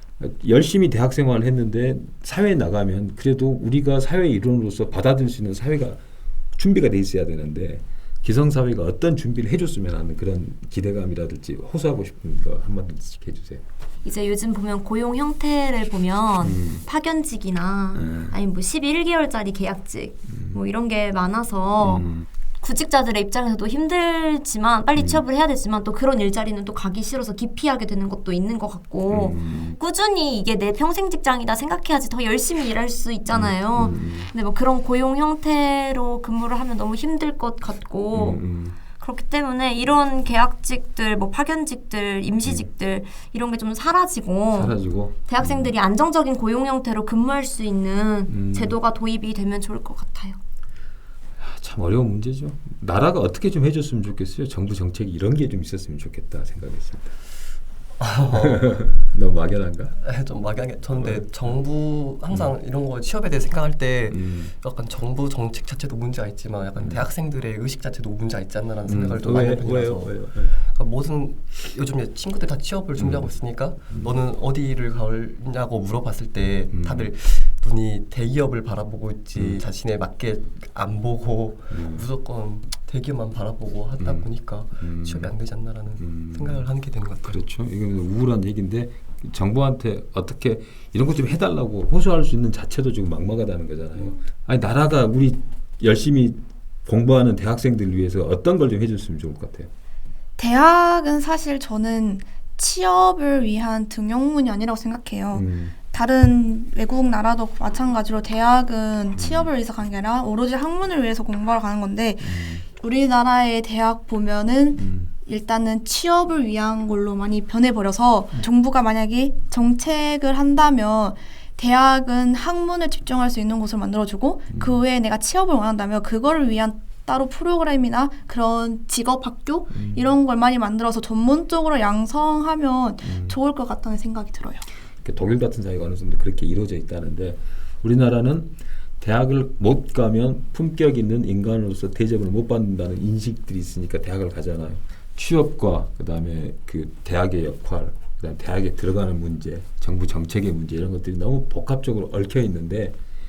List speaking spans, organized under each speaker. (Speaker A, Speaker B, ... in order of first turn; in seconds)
Speaker A: 0.2-6.0, 6.6-13.6, 16.4-16.8, 17.9-18.4, 20.3-20.6, 21.8-22.2, 25.0-25.2, 29.1-29.8, 33.3-34.3, 38.1-38.8, 44.5-45.7, 48.3-48.8, 51.4-57.1, 58.3-60.0, 61.0-61.3, 64.1-64.5, 66.8-67.0, 68.9-70.6, 73.0-73.3, 76.7-77.1, 79.3-79.6, 81.7-82.1, 84.0-85.3, 85.8-86.7, 87.2-99.7, 105.3-105.8, 109.2-109.5, 112.2-112.6, 114.8-115.1, 124.5-124.8, 129.7-130.1, 133.0-133.4, 135.0-153.0
Speaker B: 14.0-50.4
Speaker C: 58.0-58.6, 60.0-87.4
Speaker D: 100.4-134.7